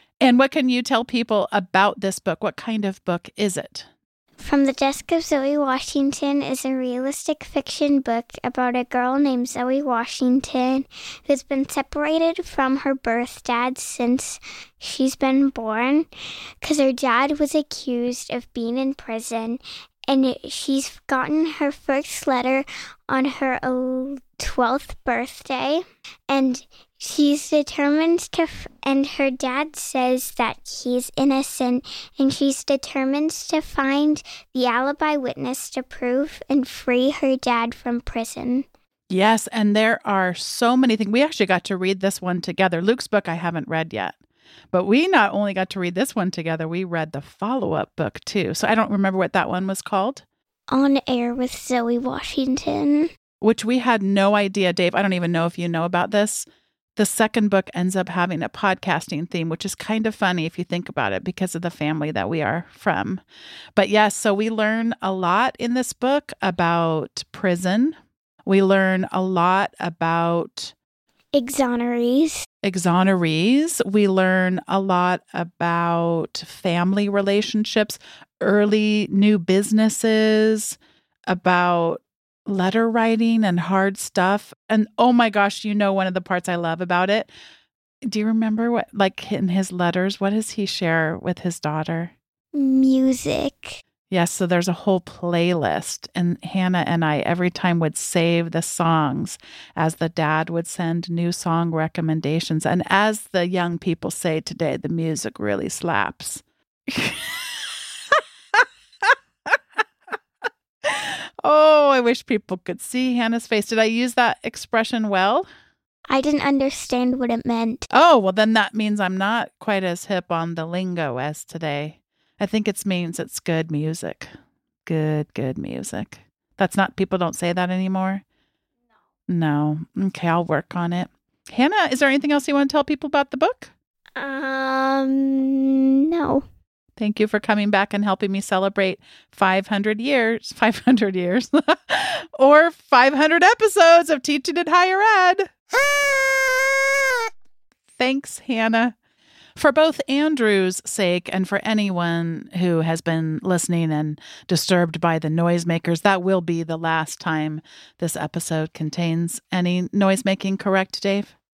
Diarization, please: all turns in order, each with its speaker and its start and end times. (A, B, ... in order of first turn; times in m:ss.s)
0:00.2-0:03.9 A
0:04.4-0:16.1 B
0:16.6-0:38.7 B
0:39.1-0:44.2 A
0:44.7-0:50.2 A
0:50.7-0:53.1 B
0:53.4-0:56.5 A
0:57.0-1:03.2 A
1:03.8-1:10.7 A
1:11.3-1:12.4 B
1:12.6-1:20.8 A
1:21.3-1:27.3 A
1:28.1-1:32.1 A
1:32.6-1:33.8 B
1:34.1-1:49.6 A
1:50.8-1:55.5 A
1:56.1-1:57.9 B
1:57.9-2:04.3 A
2:04.9-2:08.2 A
2:09.3-2:13.7 A
2:14.2-2:15.5 B
2:16.1-2:16.4 B
2:17.0-2:25.5 A
2:28.0-2:28.9 A
2:29.6-2:41.3 A